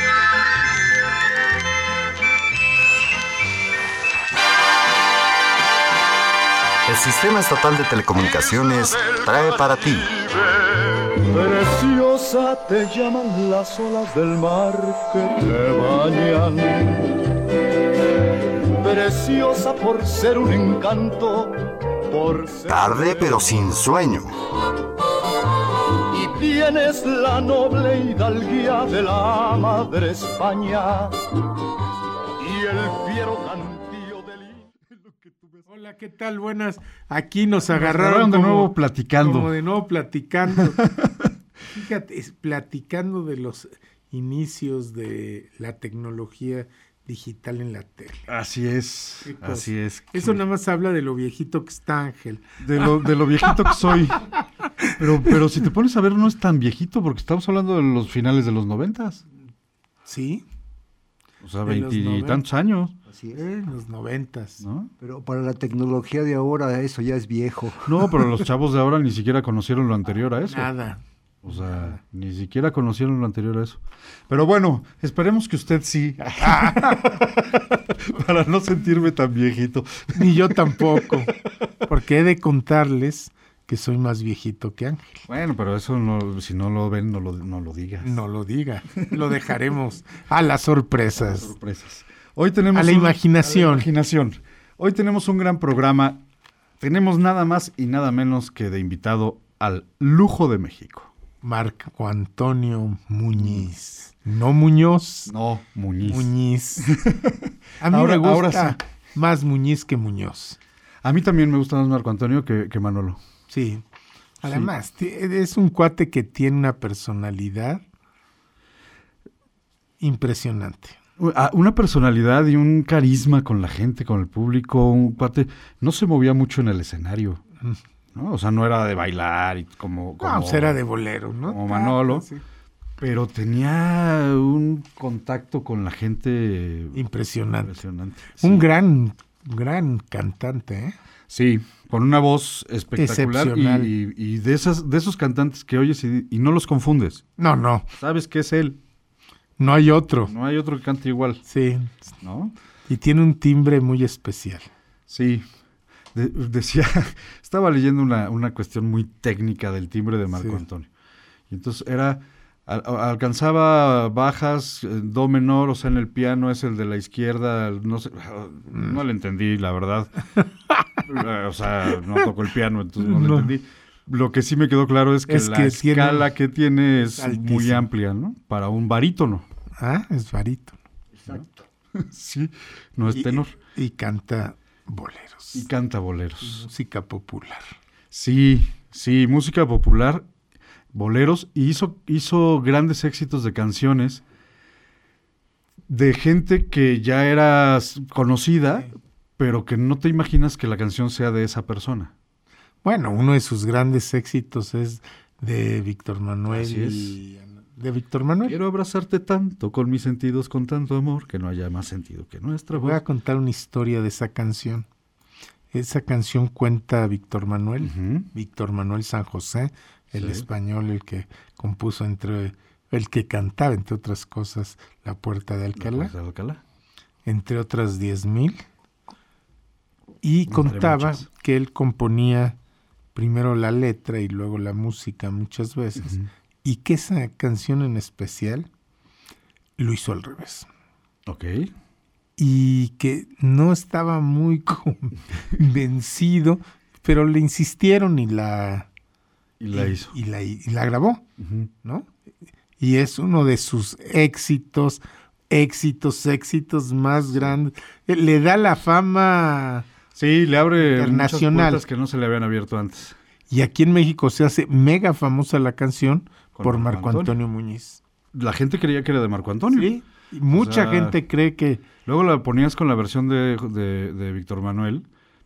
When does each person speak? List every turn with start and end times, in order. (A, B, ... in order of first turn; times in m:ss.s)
0:06.9-0:10.1 A
0:08.1-0:17.1 B
0:18.8-0:23.5 B
0:22.7-0:24.3 A
0:26.1-0:31.2 B
0:32.4-0:34.7 B
0:35.7-0:40.8 C
0:37.7-0:39.5 D
0:40.5-0:41.3 D
0:41.7-0:48.3 C
0:48.3-0:50.4 D
0:49.2-0:53.1 C
0:52.6-0:54.2 D
0:55.0-0:59.2 D
1:00.1-1:00.4 C
1:01.4-1:02.9 D
1:01.6-1:02.4 C
1:03.1-1:03.4 E
1:03.3-1:04.6 C
1:04.6-1:04.9 D
1:05.0-1:08.1 E
1:07.8-1:10.7 D
1:10.5-1:11.0 C
1:11.4-1:21.2 D
1:11.5-1:12.0 C
1:16.4-1:17.0 C
1:20.1-1:21.3 C
1:21.8-1:25.2 C
1:25.3-1:28.2 D
1:28.0-1:31.5 C
1:31.2-1:36.2 D
1:32.7-1:33.9 C
1:36.8-1:41.1 D
1:41.4-1:45.3 C
1:43.4-1:43.7 D
1:45.3-1:46.3 D
1:46.0-1:46.9 C
1:46.8-1:48.8 D
1:47.8-1:50.6 C
1:51.0-1:53.2 D
1:53.5-1:53.8 C
1:54.4-1:57.8 C
1:54.4-1:54.7 D
2:00.0-2:01.0 C
2:01.2-2:07.4 D
2:08.1-2:10.8 D
2:10.2-2:12.4 C
2:11.5-2:12.2 D
2:13.0-2:17.0 D
2:16.9-2:17.8 C
2:17.6-2:18.7 D
2:18.4-2:20.9 C
2:21.3-2:27.2 D
2:23.0-2:23.9 C
2:27.4-2:27.8 C
2:28.0-2:28.8 D
2:29.6-2:30.3 C
2:30.2-2:31.4 D
2:31.5-2:31.9 C
2:32.2-2:32.5 D
2:32.9-2:34.7 C
2:35.1-2:35.4 D
2:36.1-2:40.9 D
2:40.3-2:40.6 C
2:41.5-2:50.1 D
2:48.7-2:49.0 C
2:51.0-2:59.4 D
2:53.0-2:53.5 C
2:55.3-2:56.3 C
2:57.0-2:57.9 C
2:59.8-3:00.8 C
3:01.9-3:03.5 D
3:03.1-3:05.6 C
3:05.5-3:06.6 D
3:06.4-3:07.7 C
3:08.1-3:10.2 D
3:10.9-3:14.2 D
3:15.9-3:22.1 D
3:22.8-3:28.6 C
3:26.5-3:27.2 D
3:28.4-3:33.0 D
3:32.7-3:34.8 C
3:35.7-3:46.1 C
3:37.8-3:38.3 D
3:40.1-3:40.4 D
3:45.8-3:46.6 D
3:47.2-3:48.6 C
3:50.2-3:52.6 C
3:50.5-3:51.2 D
3:53.1-3:58.7 C
3:56.0-3:56.3 D
3:59.8-4:00.7 C
4:01.2-4:01.7 D
4:02.4-4:08.9 C
4:09.6-4:10.1 D
4:09.7-4:11.2 C
4:11.4-4:11.7 D
4:12.8-4:15.0 C
4:15.5-4:19.8 C
4:20.1-4:23.2 D
4:20.8-4:21.8 C
4:23.5-4:28.0 C
4:26.5-4:27.3 D
4:28.3-4:29.9 D
4:29.7-4:31.8 C
4:30.5-4:31.2 D
4:32.0-4:35.0 D